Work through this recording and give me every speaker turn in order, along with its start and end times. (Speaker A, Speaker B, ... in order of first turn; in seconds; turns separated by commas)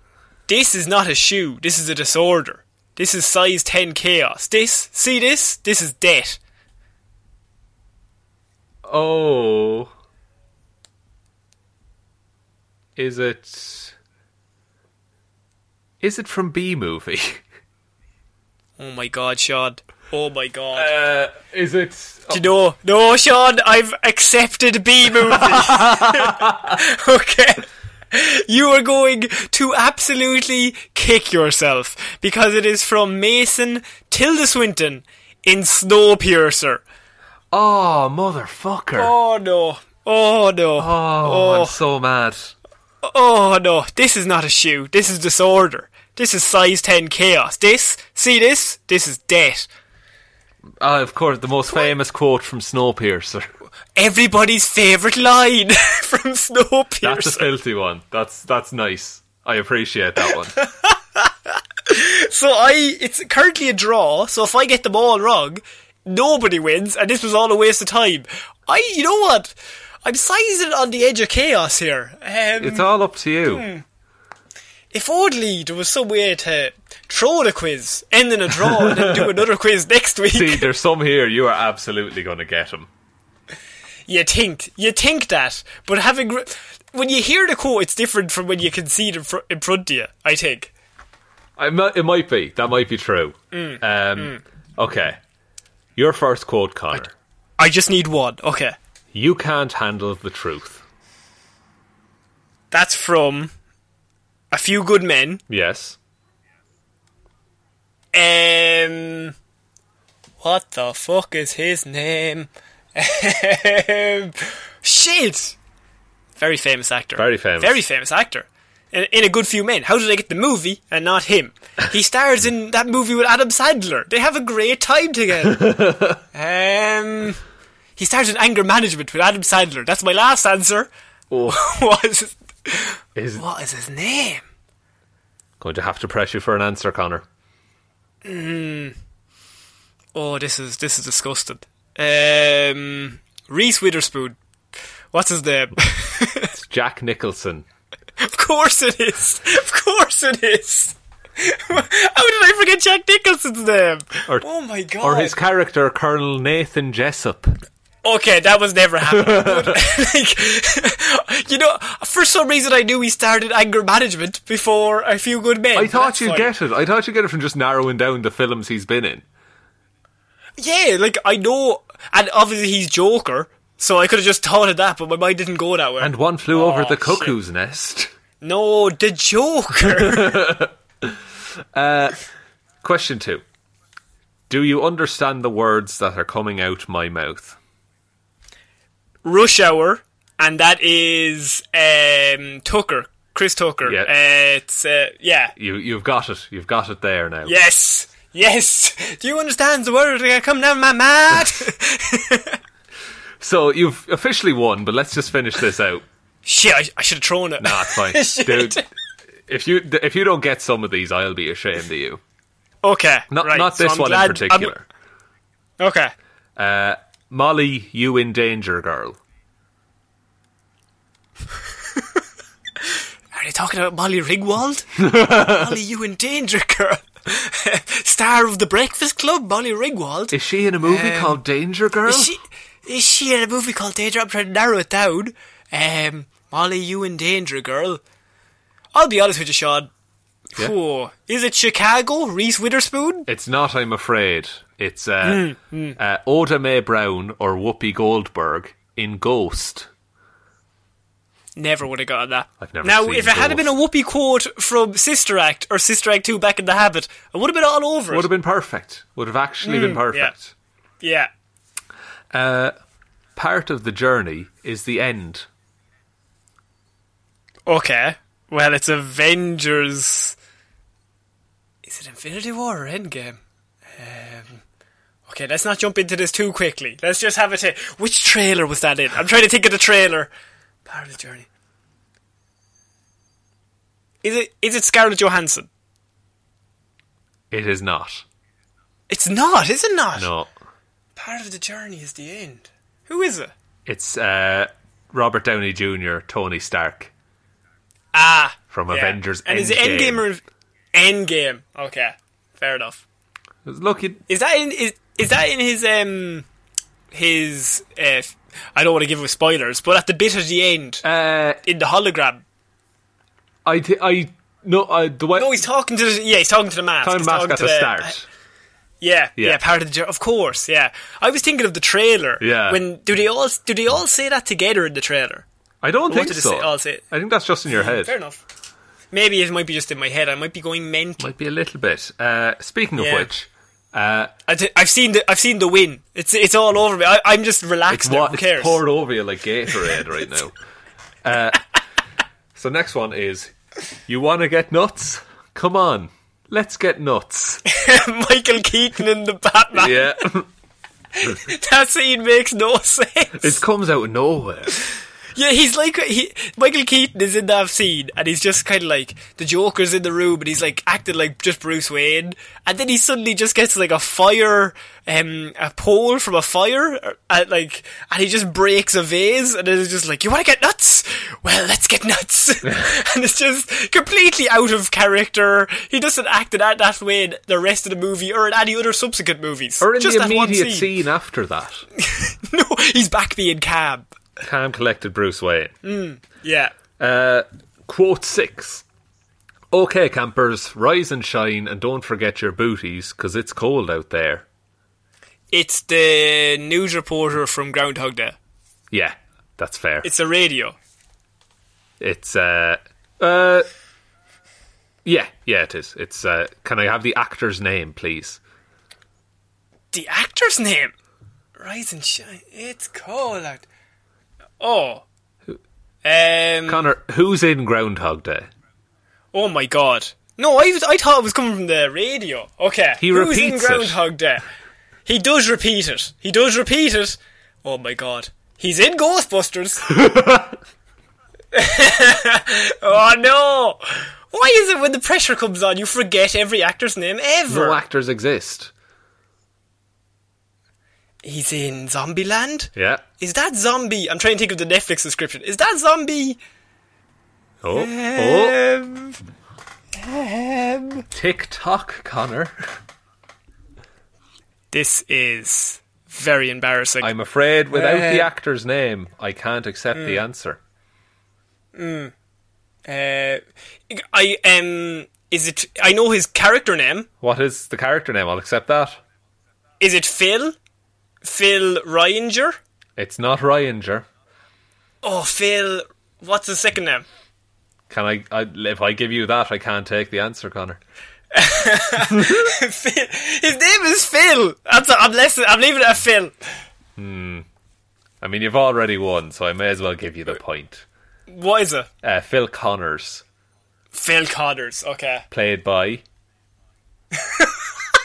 Speaker A: 0.5-6.4, Speaker B: 8.8-9.9, Speaker B: 13.0-13.9, Speaker B: 16.0-17.4, Speaker A: 18.8-20.9, Speaker B: 20.8-22.4, Speaker A: 22.3-36.8, Speaker B: 25.3-26.8, Speaker B: 37.5-39.1, Speaker A: 39.0-41.8, Speaker B: 40.8-42.5, Speaker A: 43.0-49.7, Speaker B: 50.8-53.5, Speaker A: 54.0-57.5, Speaker B: 57.0-60.6, Speaker A: 60.6-72.9, Speaker B: 72.6-73.7, Speaker A: 73.5-73.8, Speaker A: 74.9-80.7, Speaker B: 78.6-79.4, Speaker B: 80.3-82.9, Speaker A: 84.1-90.7, Speaker B: 91.6-95.2, Speaker A: 93.5-94.4, Speaker B: 96.0-97.1, Speaker A: 97.6-98.8, Speaker B: 99.1-100.8, Speaker A: 102.7-103.5, Speaker A: 104.5-105.4, Speaker B: 105.5-106.0, Speaker A: 108.1-109.3, Speaker A: 110.4-115.6, Speaker A: 116.4-125.7, Speaker B: 117.2-117.8, Speaker B: 125.5-126.2, Speaker A: 126.3-127.4, Speaker A: 128.0-130.9, Speaker B: 131.3-131.7, Speaker A: 131.5-134.4, Speaker B: 133.2-133.4, Speaker B: 135.6-137.2, Speaker A: 138.2-139.0, Speaker A: 140.2-144.4, Speaker A: 145.1-146.5, Speaker B: 146.5-147.7, Speaker A: 148.2-155.3, Speaker B: 155.0-157.6, Speaker A: 158.1-166.5, Speaker B: 159.1-159.8, Speaker B: 165.8-169.2, Speaker A: 170.6-177.3, Speaker B: 176.0-178.1, Speaker A: 178.4-180.4, Speaker B: 179.8-181.2, Speaker B: 181.7-182.2, Speaker B: 182.8-183.4, Speaker B: 184.5-187.6, Speaker A: 189.2-195.5, Speaker B: 193.8-194.1, Speaker B: 195.6-197.6, Speaker A: 197.4-202.6, Speaker B: 203.4-206.0, Speaker A: 206.4-208.9, Speaker B: 207.6-208.8, Speaker B: 209.5-212.2, Speaker A: 212.8-214.7, Speaker B: 213.3-214.8, Speaker A: 215.8-216.1, Speaker B: 216.6-219.2, Speaker A: 223.3-231.4, Speaker B: 225.0-225.8, Speaker B: 230.3-232.3, Speaker A: 232.1-238.0, Speaker A: 238.9-239.9, Speaker A: 240.6-243.3, Speaker B: 243.3-249.9, Speaker A: 245.2-246.0, Speaker A: 251.6-258.3, Speaker B: 252.6-253.7, Speaker B: 258.1-260.5, Speaker A: 259.6-260.3, Speaker A: 261.0-261.3, Speaker B: 262.3-262.8, Speaker B: 263.4-265.5, Speaker A: 267.7-270.4, Speaker A: 271.8-273.4, Speaker A: 274.0-274.6, Speaker A: 275.3-280.3, Speaker A: 280.9-281.5, Speaker A: 284.2-285.7, Speaker B: 287.5-288.2, Speaker A: 289.1-290.3, Speaker B: 290.2-290.5, Speaker A: 291.2-293.5, Speaker B: 293.9-297.1, Speaker A: 298.1-300.4, Speaker B: 298.7-300.3, Speaker A: 300.9-303.0, Speaker B: 303.7-304.2, Speaker A: 304.3-306.4, Speaker A: 307.1-311.0, Speaker B: 311.0-311.6, Speaker A: 311.6-312.4, Speaker B: 313.7-315.6, Speaker A: 315.4-318.1, Speaker B: 317.0-318.3, Speaker A: 319.0-325.4, Speaker B: 322.4-322.8, Speaker B: 325.8-328.1, Speaker A: 326.1-327.1, Speaker A: 327.7-328.4, Speaker A: 329.1-331.3, Speaker B: 331.2-334.3, Speaker A: 333.0-333.3, Speaker A: 334.5-338.8, Speaker B: 337.9-340.5, Speaker B: 341.2-341.7, Speaker B: 342.6-343.5, Speaker B: 344.1-347.6, Speaker A: 347.7-350.1, Speaker B: 349.8-350.5, Speaker A: 351.2-353.6, Speaker B: 353.4-354.8, Speaker A: 355.4-380.9, Speaker B: 379.8-381.9, Speaker A: 382.0-384.1, Speaker B: 384.4-385.8, Speaker A: 385.8-386.7, Speaker B: 387.0-388.8, Speaker B: 389.7-394.4, Speaker A: 395.5-398.4, Speaker B: 398.9-400.1, Speaker A: 400.0-400.8, Speaker B: 402.0-403.7, Speaker B: 405.1-408.4, Speaker A: 409.9-410.9, Speaker A: 411.6-413.6, Speaker A: 414.6-415.0, Speaker A: 416.1-416.9, Speaker B: 416.7-418.5, Speaker A: 419.3-424.4, Speaker B: 423.0-424.0, Speaker A: 425.1-429.9, Speaker B: 429.9-430.6, Speaker A: 431.5-437.8, Speaker B: 437.5-438.7, Speaker A: 441.2-446.4, Speaker B: 442.8-443.0, Speaker B: 447.6-448.6, Speaker A: 447.7-449.2, Speaker A: 449.9-451.1, Speaker B: 451.1-452.6, Speaker A: 454.7-457.1, Speaker B: 457.0-460.6, Speaker A: 457.7-458.3, Speaker A: 459.9-460.2, Speaker A: 461.8-462.1, Speaker A: 462.9-467.1, Speaker B: 467.2-469.0, Speaker A: 469.8-470.6, Speaker A: 471.2-472.6, Speaker B: 473.0-474.1, Speaker A: 475.0-477.1, Speaker B: 477.9-480.8, Speaker A: 481.3-486.3, Speaker B: 482.2-482.5, Speaker B: 487.0-487.4, Speaker B: 488.2-490.8, Speaker A: 491.3-491.9, Speaker B: 492.0-493.2, Speaker A: 493.9-495.2, Speaker B: 495.3-496.0, Speaker A: 497.1-497.7